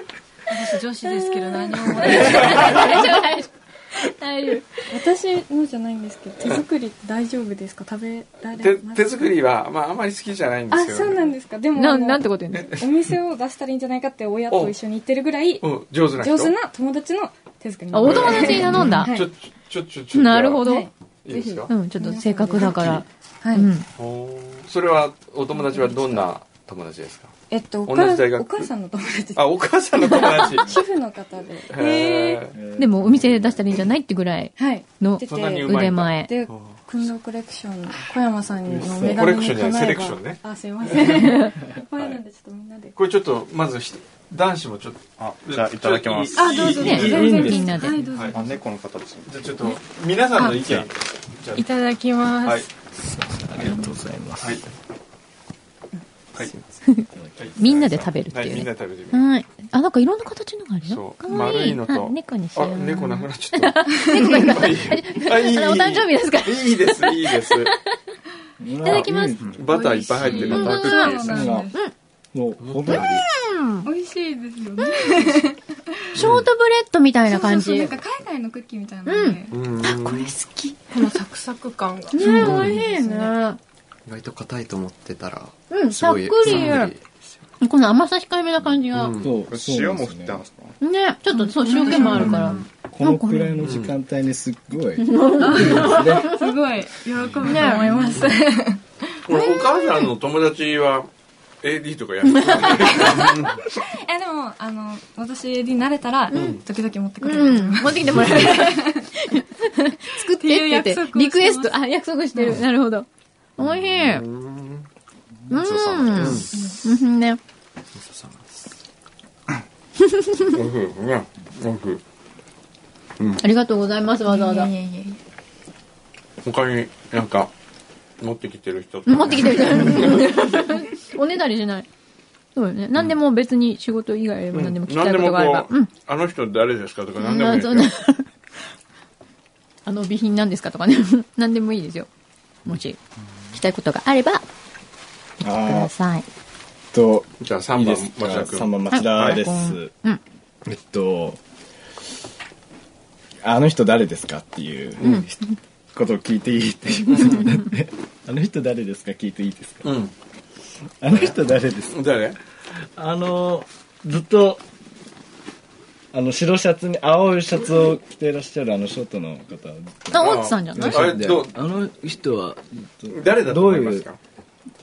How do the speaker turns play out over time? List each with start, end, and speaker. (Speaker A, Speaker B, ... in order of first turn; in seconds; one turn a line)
Speaker A: 0.5-2.9
Speaker B: 1.0-4.7
Speaker C: 2.0-3.0
Speaker D: 4.9-9.3
Speaker C: 8.6-11.3
Speaker D: 10.7-19.3
Speaker B: 11.8-12.7
Speaker C: 14.5-14.8
Speaker C: 15.6-16.6
Speaker B: 17.9-19.2
Speaker C: 18.0-20.6
Speaker B: 20.1-20.9
Speaker D: 20.6-23.7
Speaker C: 21.2-21.7
Speaker B: 21.7-23.9
Speaker C: 22.6-23.0
Speaker C: 24.0-27.3
Speaker D: 25.5-26.3
Speaker D: 27.5-29.4
Speaker C: 27.9-28.7
Speaker C: 29.4-30.8
Speaker D: 30.0-31.8
Speaker B: 30.1-30.5
Speaker C: 31.7-32.5
Speaker B: 31.8-36.3
Speaker E: 32.5-33.4
Speaker C: 33.1-33.4
Speaker D: 34.6-42.9
Speaker C: 35.3-36.8
Speaker E: 38.7-39.3
Speaker C: 39.1-40.4
Speaker A: 41.0-41.5
Speaker B: 41.0-41.5
Speaker C: 43.0-48.4
Speaker F: 45.2-46.5
Speaker D: 46.4-48.3
Speaker A: 46.4-48.3
Speaker E: 46.6-47.9
Speaker B: 46.8-48.0
Speaker F: 48.3-49.3
Speaker C: 49.2-51.6
Speaker E: 50.5-50.9
Speaker A: 51.5-52.7
Speaker E: 53.0-54.6
Speaker B: 56.9-68.0
Speaker E: 57.1-57.9
Speaker C: 57.4-59.3
Speaker C: 60.9-67.7
Speaker E: 68.6-69.7
Speaker B: 68.8-69.4
Speaker C: 69.5-71.5
Speaker D: 69.7-71.7
Speaker B: 70.4-71.2
Speaker A: 70.5-71.1
Speaker E: 71.2-71.8
Speaker E: 72.3-73.1
Speaker G: 72.6-73.3
Speaker B: 72.9-73.9
Speaker D: 73.8-76.2
Speaker B: 76.2-77.9
Speaker C: 76.2-76.5
Speaker D: 77.3-79.6
Speaker B: 79.1-80.8
Speaker C: 79.5-80.3
Speaker A: 80.9-83.3
Speaker B: 82.1-83.6
Speaker D: 82.3-82.5
Speaker C: 82.5-82.7
Speaker G: 84.1-87.4
Speaker B: 85.7-86.9
Speaker C: 86.4-86.8
Speaker B: 87.6-89.2
Speaker C: 88.9-89.3
Speaker E: 89.2-90.4
Speaker F: 89.5-90.8
Speaker B: 90.8-93.6
Speaker A: 91.5-92.6
Speaker D: 91.7-92.4
Speaker E: 92.2-96.3
Speaker C: 93.6-94.0
Speaker B: 95.0-96.4
Speaker D: 95.5-98.8
Speaker A: 95.7-96.5
Speaker A: 97.3-98.4
Speaker B: 97.4-97.9
Speaker C: 99.3-101.1
Speaker C: 101.6-103.7
Speaker B: 102.3-103.5
Speaker D: 102.9-109.1
Speaker B: 106.3-106.6
Speaker C: 106.3-106.6
Speaker B: 107.2-114.3
Speaker A: 110.5-111.4
Speaker D: 110.5-111.7
Speaker C: 113.9-114.9
Speaker B: 115.5-117.4
Speaker C: 115.5-116.5
Speaker G: 115.7-116.5
Speaker C: 120.5-122.0
Speaker B: 123.4-124.7
Speaker D: 124.3-125.2
Speaker C: 126.4-127.5
Speaker C: 128.2-130.4
Speaker B: 129.1-131.9
Speaker B: 132.6-135.9
Speaker C: 134.5-137.9
Speaker B: 137.2-138.3
Speaker B: 139.9-142.1
Speaker B: 142.7-143.0
Speaker B: 143.5-144.4
Speaker E: 145.4-145.9
Speaker B: 145.5-146.3
Speaker E: 146.9-149.9
Speaker C: 147.4-149.4
Speaker B: 148.9-150.2
Speaker E: 150.7-151.4
Speaker E: 153.4-155.4
Speaker B: 155.0-155.3
Speaker E: 155.9-159.9
Speaker C: 157.1-157.5
Speaker B: 157.2-157.5
Speaker C: 159.8-160.1
Speaker E: 161.0-162.0
Speaker C: 161.1-161.4
Speaker C: 161.9-162.4
Speaker E: 163.0-164.6
Speaker E: 166.1-174.1
Speaker B: 170.1-171.1
Speaker C: 170.2-171.6
Speaker C: 173.1-174.2